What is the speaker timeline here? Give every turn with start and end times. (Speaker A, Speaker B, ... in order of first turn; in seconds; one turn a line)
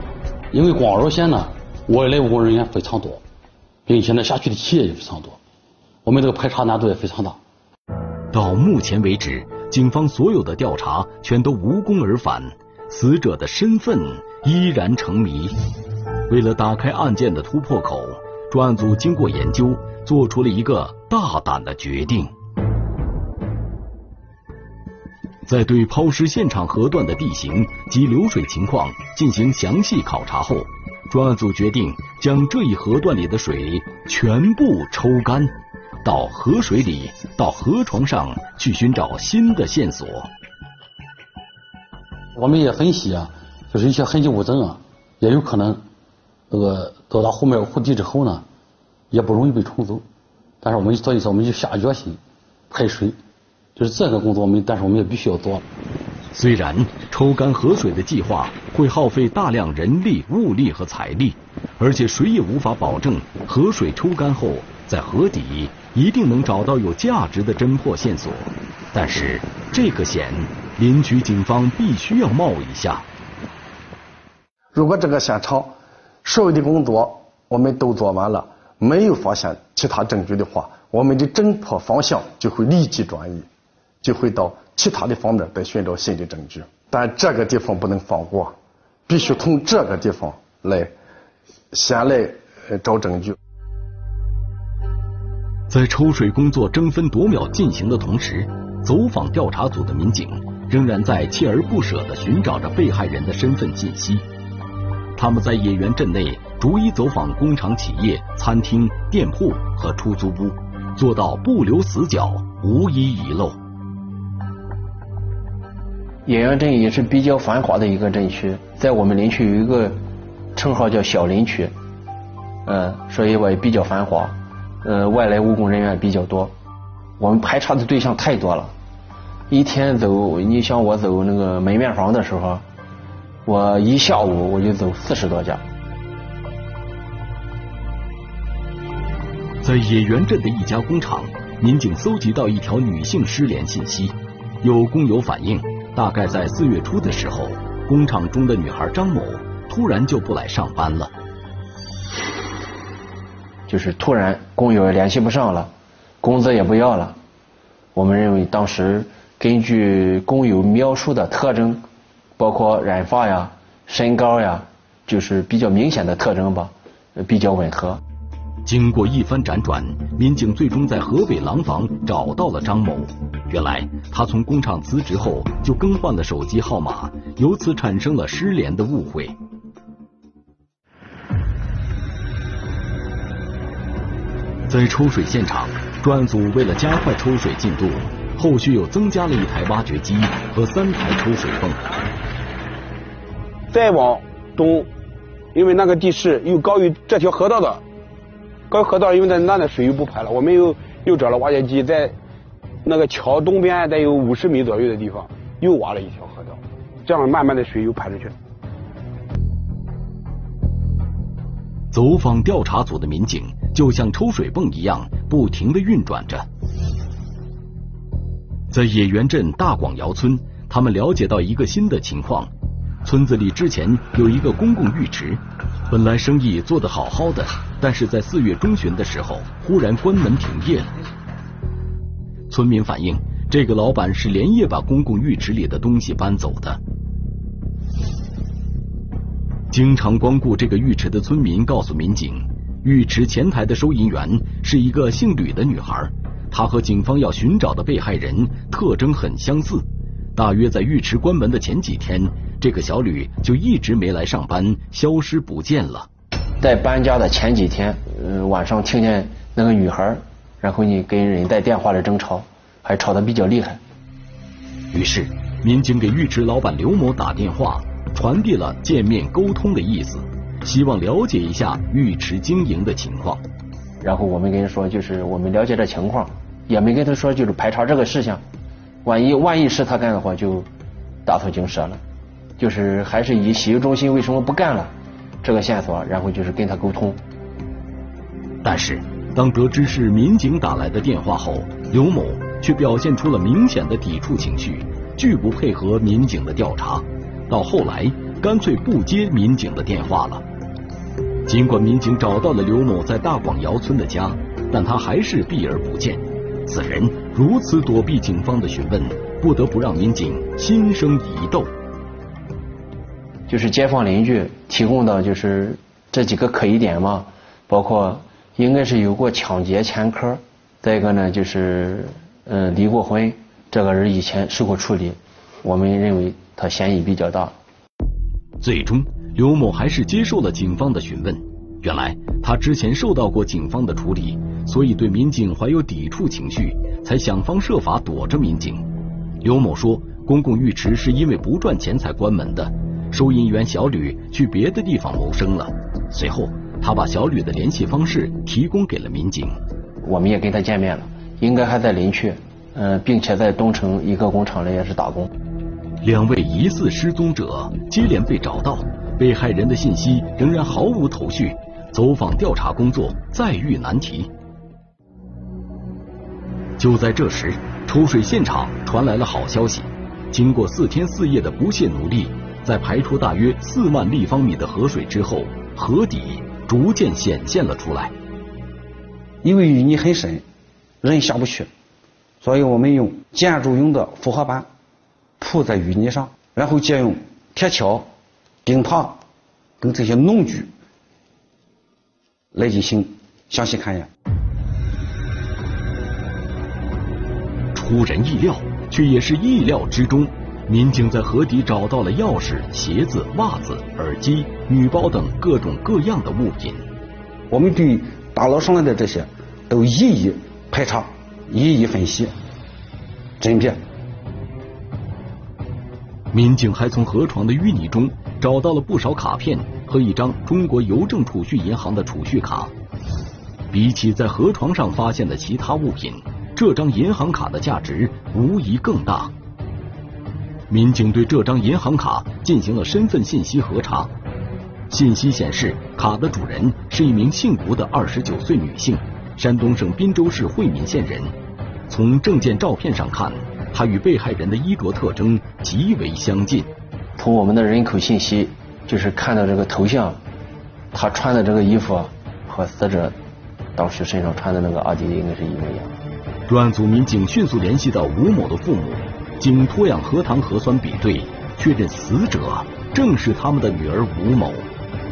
Speaker A: 0.5-3.2
Speaker A: 3.9-5.4
Speaker A: 6.0-7.4
Speaker B: 8.3-15.5
Speaker B: 16.3-22.3
Speaker B: 25.4-35.5
Speaker B: 36.0-40.3
Speaker A: 42.3-45.8
Speaker A: 46.5-48.4
Speaker A: 49.1-50.0
Speaker A: 50.6-52.2
Speaker A: 52.7-53.2
Speaker A: 53.8-55.6
Speaker B: 56.3-73.0
Speaker C: 74.7-75.7
Speaker C: 76.2-83.5
Speaker C: 84.0-88.5
Speaker C: 89.1-90.9
Speaker C: 91.7-93.3
Speaker B: 95.7-104.2
Speaker B: 105.2-113.6
Speaker D: 116.2-120.0
Speaker D: 120.5-121.7
Speaker D: 122.6-126.5
Speaker D: 127.2-128.7
Speaker D: 129.5-132.6
Speaker D: 133.4-135.6
Speaker B: 139.6-151.1
Speaker D: 153.7-157.2
Speaker D: 157.9-161.8
Speaker D: 162.4-168.0
Speaker B: 168.7-179.3
Speaker B: 184.7-191.8
Speaker E: 193.7-194.9
Speaker E: 195.5-197.8
Speaker E: 198.7-202.2
Speaker E: 202.8-208.3
Speaker B: 211.9-216.4
Speaker B: 218.7-222.5
Speaker B: 223.0-230.9
Speaker B: 232.5-236.8
Speaker B: 239.7-256.1
Speaker D: 256.6-263.8
Speaker B: 264.9-273.4
Speaker D: 274.0-278.4
Speaker D: 279.0-280.7
Speaker D: 281.2-282.0
Speaker D: 282.6-287.2
Speaker B: 288.6-300.4
Speaker B: 301.4-311.7
Speaker D: 313.5-327.5
Speaker B: 328.6-338.9
Speaker B: 339.4-349.6
Speaker D: 350.0-355.3
Speaker B: 356.0-364.3
Speaker B: 366.8-378.1
Speaker F: 379.4-380.4
Speaker F: 381.0-381.7
Speaker F: 382.4-384.7
Speaker F: 385.4-388.1
Speaker F: 388.6-389.2
Speaker F: 389.8-390.7
Speaker F: 392.5-394.1
Speaker B: 397.7-406.8
Speaker F: 407.5-412.3
Speaker F: 413.4-413.8
Speaker B: 416.3-422.7
Speaker B: 423.7-429.3
Speaker B: 430.7-434.1
Speaker B: 434.9-441.3
Speaker B: 441.9-446.7
Speaker D: 447.2-450.2
Speaker D: 450.9-453.1
Speaker D: 453.8-455.9
Speaker B: 456.5-464.7